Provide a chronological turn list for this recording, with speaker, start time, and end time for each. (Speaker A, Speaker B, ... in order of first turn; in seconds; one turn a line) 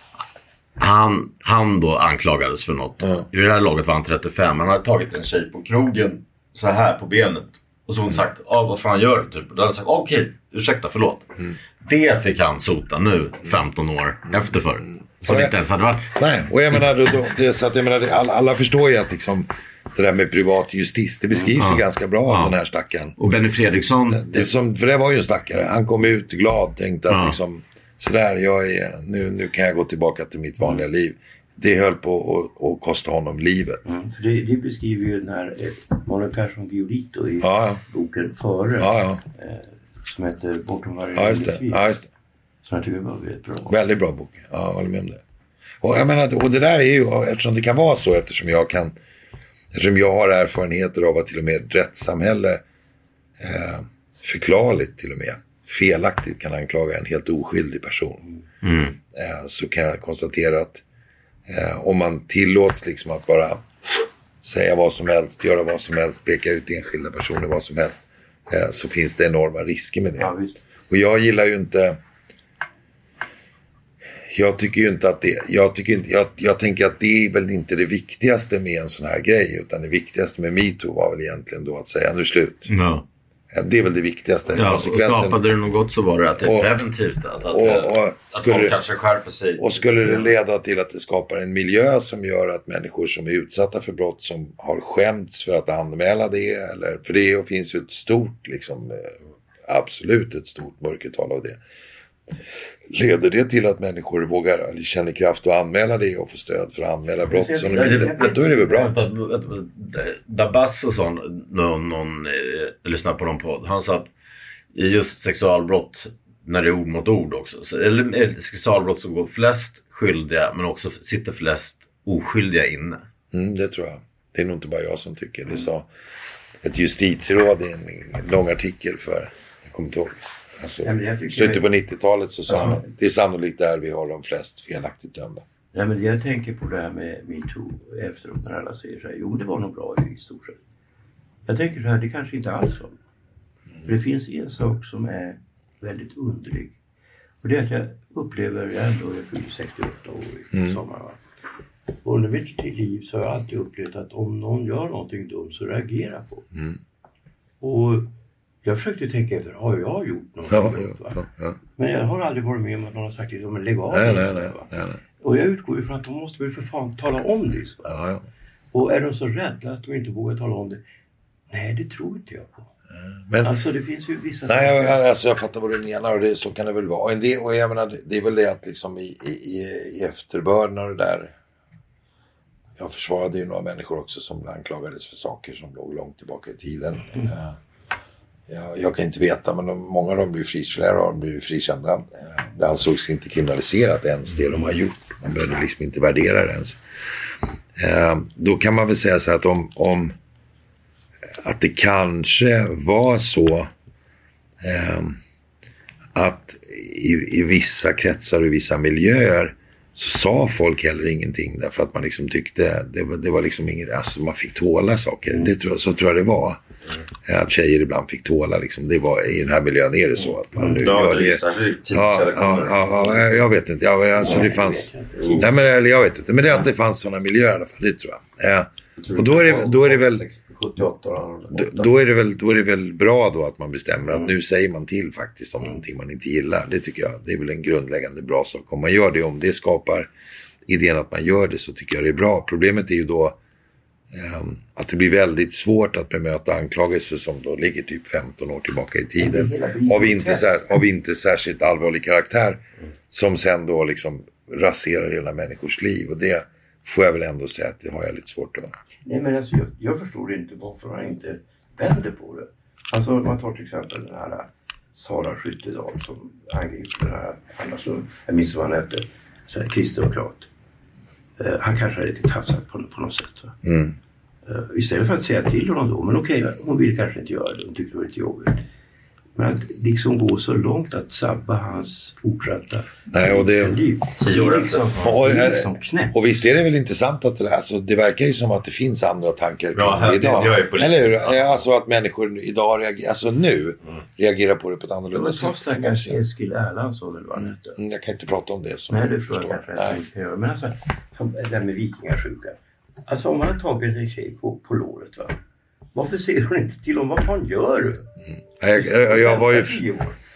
Speaker A: 0.8-11.3
Speaker A: 11.8-16.1
Speaker B: 15.2-15.5
Speaker B: 16.1-23.1
Speaker A: 21.5-22.5
Speaker A: 23.2-24.5
Speaker B: 24.1-33.8
Speaker A: 27.1-27.4
Speaker C: 33.8-41.8
Speaker B: 37.4-37.8
Speaker B: 38.8-39.2
Speaker B: 41.1-42.1
Speaker C: 42.6-43.8
Speaker B: 43.7-45.2
Speaker B: 45.8-48.9
Speaker B: 49.7-52.6
Speaker B: 53.4-58.3
Speaker A: 58.6-59.0
Speaker B: 59.1-60.8
Speaker B: 61.5-63.6
Speaker B: 64.4-70.3
Speaker C: 70.2-70.6
Speaker B: 70.9-72.0
Speaker B: 74.3-82.7
Speaker A: 82.7-83.0
Speaker B: 83.5-85.4
Speaker A: 84.5-90.3
Speaker B: 86.4-86.7
Speaker B: 87.5-88.8
Speaker B: 89.6-101.6
Speaker B: 102.9-108.9
Speaker C: 107.2-108.9
Speaker A: 107.6-114.1
Speaker A: 114.7-123.0
Speaker B: 123.3-125.9
Speaker B: 126.6-135.4
Speaker C: 130.8-131.7
Speaker C: 135.7-140.6
Speaker C: 141.4-143.0
Speaker C: 143.8-146.8
Speaker C: 147.4-151.2
Speaker B: 150.5-150.8
Speaker C: 152.0-156.5
Speaker C: 157.6-158.1
Speaker C: 158.6-161.2
Speaker B: 160.5-161.6
Speaker C: 161.8-168.0
Speaker B: 163.9-165.0
Speaker B: 167.9-168.2
Speaker C: 168.7-170.8
Speaker C: 171.5-172.7
Speaker B: 172.9-173.6
Speaker C: 173.4-175.0
Speaker B: 174.5-181.3
Speaker B: 182.8-187.6
Speaker B: 188.5-196.8
Speaker B: 197.8-200.1
Speaker B: 201.4-203.7
Speaker B: 204.6-205.2
Speaker B: 206.1-216.6
Speaker B: 217.2-230.2
Speaker C: 220.6-220.8
Speaker A: 220.7-223.3
Speaker C: 224.2-225.5
Speaker A: 225.2-225.5
Speaker A: 229.0-231.9
Speaker B: 231.5-240.1
Speaker B: 240.7-243.4
Speaker B: 244.1-258.7
Speaker C: 249.2-250.8
Speaker C: 259.1-270.5
Speaker C: 271.4-273.6
Speaker B: 273.6-273.9
Speaker C: 274.4-278.6
Speaker C: 279.4-286.1
Speaker B: 283.1-283.8
Speaker A: 284.2-285.0
Speaker B: 285.0-296.2
Speaker A: 289.7-291.6
Speaker C: 295.1-297.8
Speaker B: 297.4-300.0
Speaker C: 298.9-305.4
Speaker C: 305.9-308.1
Speaker B: 308.6-309.8
Speaker C: 308.7-310.2